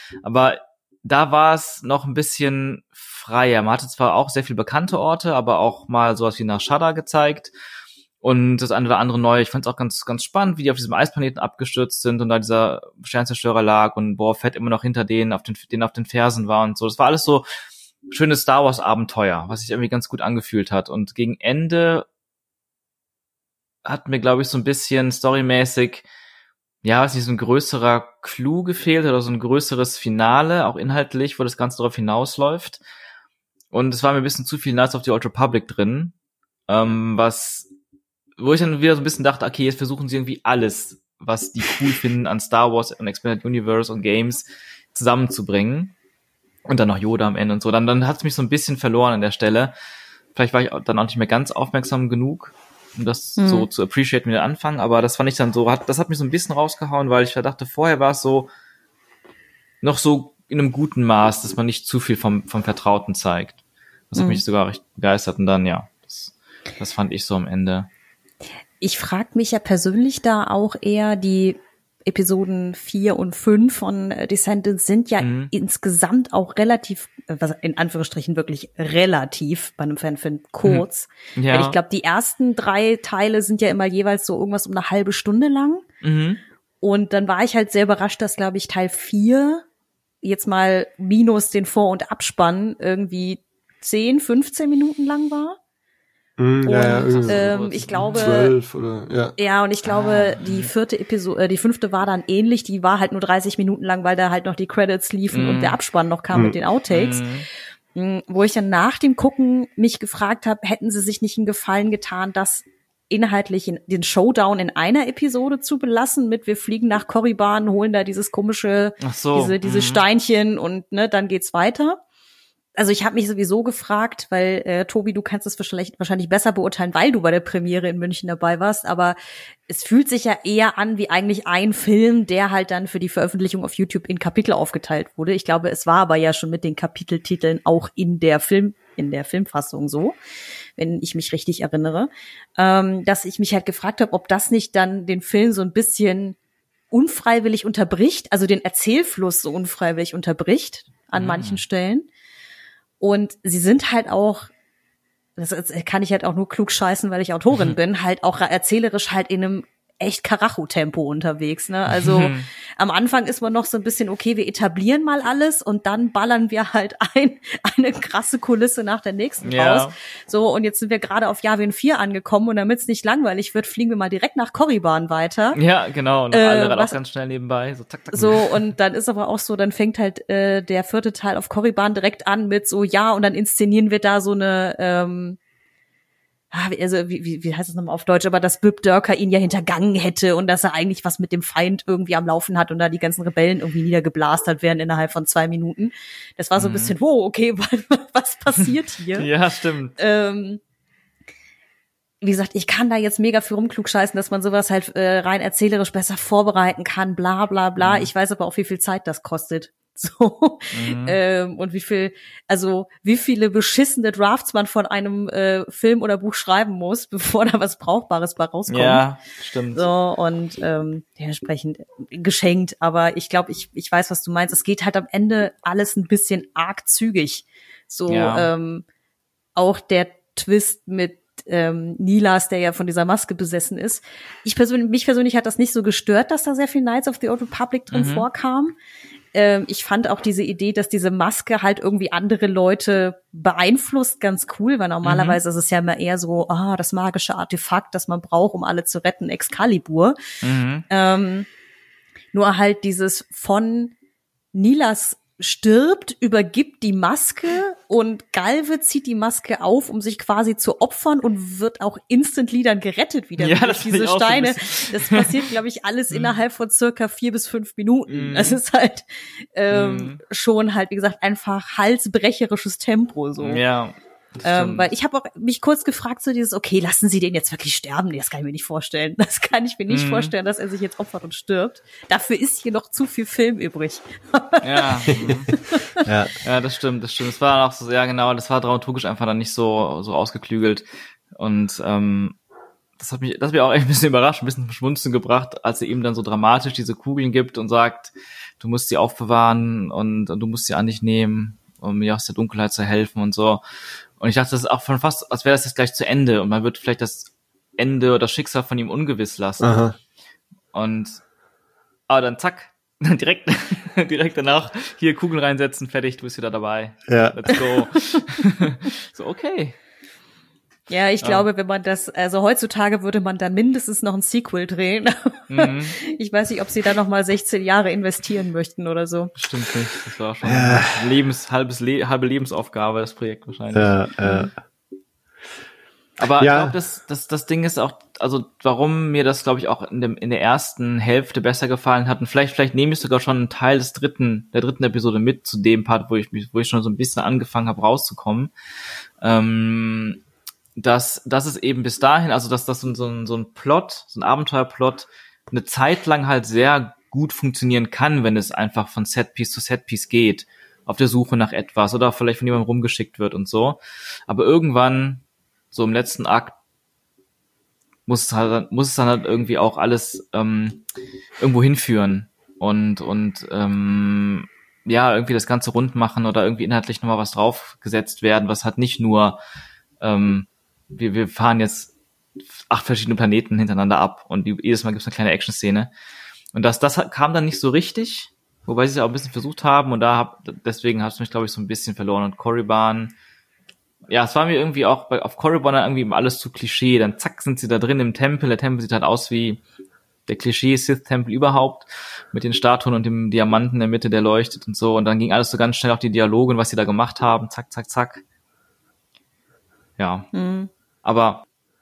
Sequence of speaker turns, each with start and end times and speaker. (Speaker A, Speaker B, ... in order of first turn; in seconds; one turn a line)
Speaker A: 0.2-7.5
Speaker A: 8.2-17.5
Speaker A: 18.1-22.1
Speaker A: 23.9-26.1
Speaker A: 26.8-32.8
Speaker A: 33.7-36.1
Speaker A: 36.7-37.7
Speaker A: 38.4-46.0
Speaker A: 46.7-49.7
Speaker A: 50.4-58.5
Speaker B: 53.4-53.7
Speaker A: 59.8-63.6
Speaker A: 64.1-67.9
Speaker B: 64.2-64.4
Speaker B: 68.8-85.9
Speaker A: 75.2-75.5
Speaker A: 81.4-81.8
Speaker A: 86.0-86.4
Speaker B: 86.8-89.7
Speaker B: 90.2-95.6
Speaker C: 96.4-99.3
Speaker B: 96.7-98.5
Speaker A: 96.8-98.4
Speaker B: 99.4-107.2
Speaker A: 99.8-100.7
Speaker A: 105.3-105.8
Speaker A: 106.9-107.5
Speaker B: 108.0-122.0
Speaker A: 119.0-120.0
Speaker B: 122.8-129.2
Speaker B: 129.7-140.2
Speaker B: 140.8-146.4
Speaker B: 146.9-152.1
Speaker A: 151.2-151.6
Speaker B: 153.0-154.5
Speaker B: 155.4-175.6
Speaker A: 161.9-162.5
Speaker A: 169.4-169.9
Speaker A: 175.5-178.7
Speaker B: 176.3-177.0
Speaker B: 178.1-185.4
Speaker B: 186.5-199.3
Speaker A: 196.6-196.9
Speaker A: 199.1-200.0
Speaker B: 200.0-200.6
Speaker B: 202.2-219.1
Speaker A: 207.8-208.1
Speaker A: 210.7-211.2
Speaker A: 218.7-219.9
Speaker B: 219.7-228.8
Speaker A: 228.1-228.5
Speaker B: 229.6-238.8
Speaker A: 237.9-238.3
Speaker B: 239.3-250.2
Speaker A: 245.0-245.4
Speaker A: 250.4-250.8
Speaker B: 250.9-251.5
Speaker B: 252.3-253.9
Speaker B: 254.5-273.6
Speaker A: 263.4-265.4
Speaker A: 268.1-268.6
Speaker A: 269.7-270.2
Speaker A: 273.4-274.9
Speaker B: 274.4-284.9
Speaker A: 279.9-280.3
Speaker A: 284.6-285.5
Speaker B: 285.7-286.0
Speaker C: 286.0-286.3
Speaker A: 286.4-292.4
Speaker A: 293.0-303.6
Speaker A: 304.2-309.9
Speaker C: 309.6-309.9
Speaker A: 310.7-311.2
Speaker A: 312.1-319.8
Speaker C: 317.1-317.4
Speaker B: 317.5-318.2
Speaker B: 320.9-329.3
Speaker A: 321.2-321.5
Speaker A: 325.5-325.9
Speaker A: 329.4-334.5
Speaker C: 330.4-331.1
Speaker C: 333.7-334.5
Speaker A: 336.2-348.5
Speaker C: 336.3-336.8
Speaker A: 349.2-350.2
Speaker A: 350.8-366.6
Speaker A: 368.1-370.8
Speaker A: 371.4-379.4
Speaker A: 380.0-381.9
Speaker A: 382.7-385.9
Speaker A: 386.5-393.1
Speaker A: 394.1-399.6
Speaker A: 400.3-408.2
Speaker A: 410.0-410.3
Speaker B: 410.3-410.7
Speaker A: 411.0-411.4